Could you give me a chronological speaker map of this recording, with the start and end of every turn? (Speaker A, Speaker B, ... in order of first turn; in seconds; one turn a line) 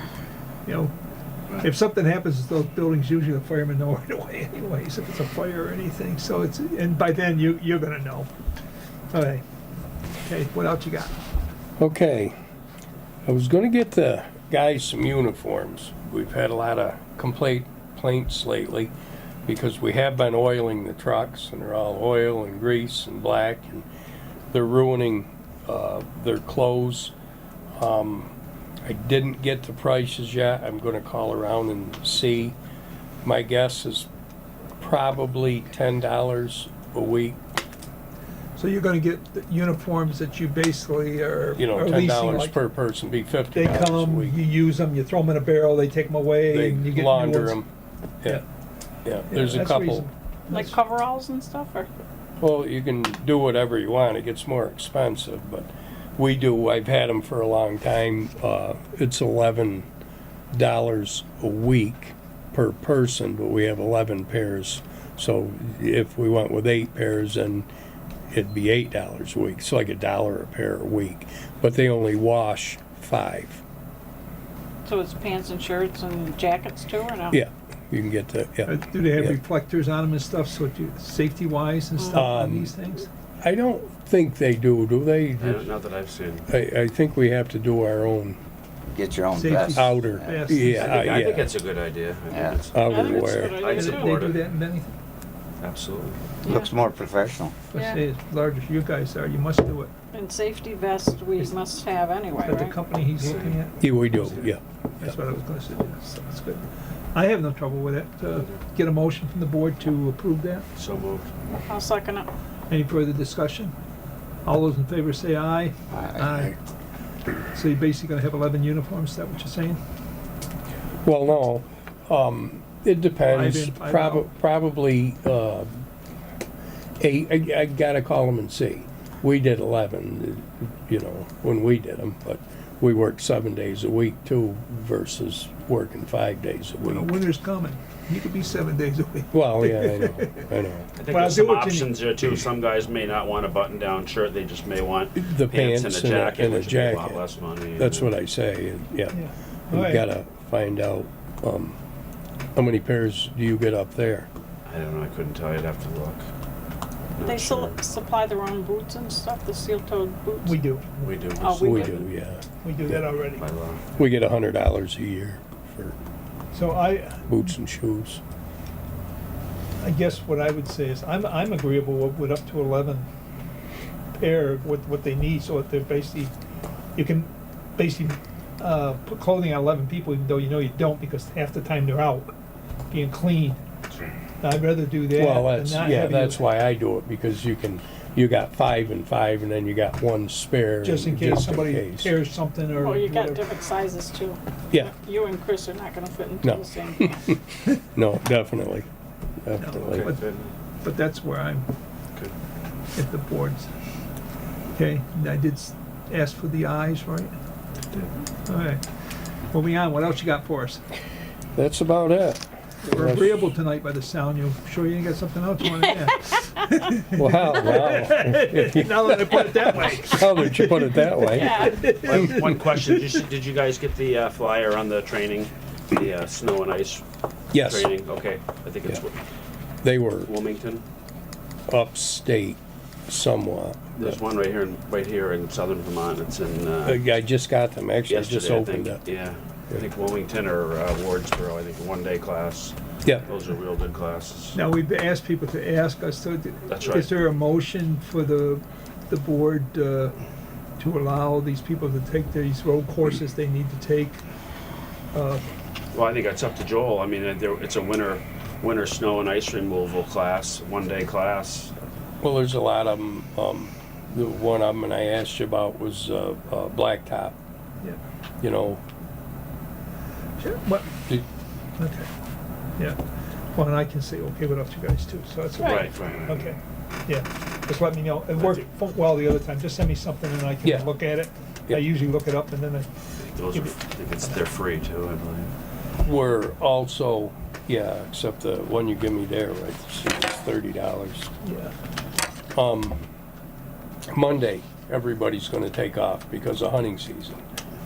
Speaker A: 0.7-0.9
Speaker A: 1.5-8.3
Speaker A: 9.1-9.4
Speaker A: 10.2-11.1
Speaker B: 11.8-12.3
Speaker B: 13.2-18.9
Speaker B: 19.4-23.9
Speaker B: 24.5-27.1
Speaker B: 27.8-28.3
Speaker B: 28.8-32.5
Speaker B: 33.2-34.1
Speaker B: 34.8-37.4
Speaker A: 38.6-42.6
Speaker B: 41.6-44.4
Speaker A: 43.5-47.6
Speaker B: 46.5-47.7
Speaker B: 49.0-50.1
Speaker A: 49.3-50.7
Speaker C: 50.5-51.9
Speaker B: 52.4-59.9
Speaker B: 60.5-67.7
Speaker B: 68.3-73.6
Speaker C: 74.8-77.4
Speaker B: 77.3-79.4
Speaker A: 78.7-83.1
Speaker B: 82.1-82.7
Speaker B: 83.4-85.7
Speaker D: 85.4-86.5
Speaker B: 86.5-88.4
Speaker E: 88.9-90.5
Speaker A: 89.3-91.2
Speaker B: 89.7-91.5
Speaker D: 90.6-94.4
Speaker E: 92.3-92.6
Speaker B: 92.7-93.5
Speaker C: 92.8-94.2
Speaker A: 93.7-94.9
Speaker D: 95.6-96.4
Speaker C: 96.4-96.7
Speaker E: 96.5-97.6
Speaker A: 97.7-99.9
Speaker C: 97.7-98.0
Speaker C: 100.1-102.8
Speaker A: 102.4-104.5
Speaker D: 103.2-103.6
Speaker B: 103.8-105.1
Speaker D: 104.2-104.5
Speaker A: 105.0-110.7
Speaker D: 110.7-111.3
Speaker C: 111.6-112.3
Speaker A: 112.7-113.7
Speaker A: 114.4-116.5
Speaker E: 115.9-116.5
Speaker A: 117.5-119.8
Speaker B: 121.0-125.8
Speaker A: 123.3-124.3
Speaker B: 127.0-137.1
Speaker A: 136.8-140.5
Speaker B: 139.3-140.9
Speaker D: 140.9-148.1
Speaker A: 141.1-142.0
Speaker B: 142.2-142.5
Speaker B: 145.2-147.2
Speaker B: 147.8-151.8
Speaker A: 149.1-150.0
Speaker B: 152.5-154.3
Speaker D: 154.7-156.3
Speaker D: 157.2-157.7
Speaker C: 157.2-160.6
Speaker A: 160.4-161.2
Speaker D: 161.0-162.0
Speaker C: 161.4-162.1
Speaker B: 161.5-163.1
Speaker A: 162.6-163.4
Speaker D: 163.4-163.8
Speaker B: 164.0-165.9
Speaker A: 166.5-167.3
Speaker B: 167.3-168.2
Speaker A: 169.8-173.1
Speaker A: 174.2-176.3
Speaker A: 176.9-182.3
Speaker A: 182.9-183.6
Speaker A: 184.4-186.4
Speaker B: 185.1-192.2
Speaker A: 190.8-193.4
Speaker C: 192.8-197.3
Speaker B: 196.4-198.9
Speaker B: 199.4-200.1
Speaker A: 199.6-200.2
Speaker D: 199.7-200.5
Speaker A: 200.8-201.7
Speaker A: 202.9-203.7
Speaker A: 204.7-207.3
Speaker A: 208.4-208.8
Speaker A: 209.5-210.8
Speaker B: 211.5-213.4
Speaker A: 212.8-222.5
Speaker B: 217.1-222.4
Speaker C: 221.3-222.0
Speaker D: 221.4-229.2
Speaker B: 227.5-227.9
Speaker B: 229.8-230.3
Speaker D: 230.2-230.8
Speaker B: 231.7-234.2
Speaker D: 234.0-237.0
Speaker B: 236.8-239.0
Speaker D: 238.1-244.6
Speaker A: 244.5-250.1
Speaker D: 246.7-247.1
Speaker A: 250.8-254.2
Speaker A: 255.1-255.4
Speaker D: 255.9-261.8
Speaker B: 262.2-267.3
Speaker B: 268.4-268.8
Speaker A: 270.4-270.9
Speaker A: 271.8-272.1
Speaker A: 273.5-282.9
Speaker D: 275.6-276.5
Speaker B: 280.6-280.9
Speaker D: 283.3-285.5
Speaker A: 283.5-283.7
Speaker B: 286.0-291.3
Speaker A: 291.4-291.7
Speaker B: 292.5-293.0
Speaker B: 294.1-297.4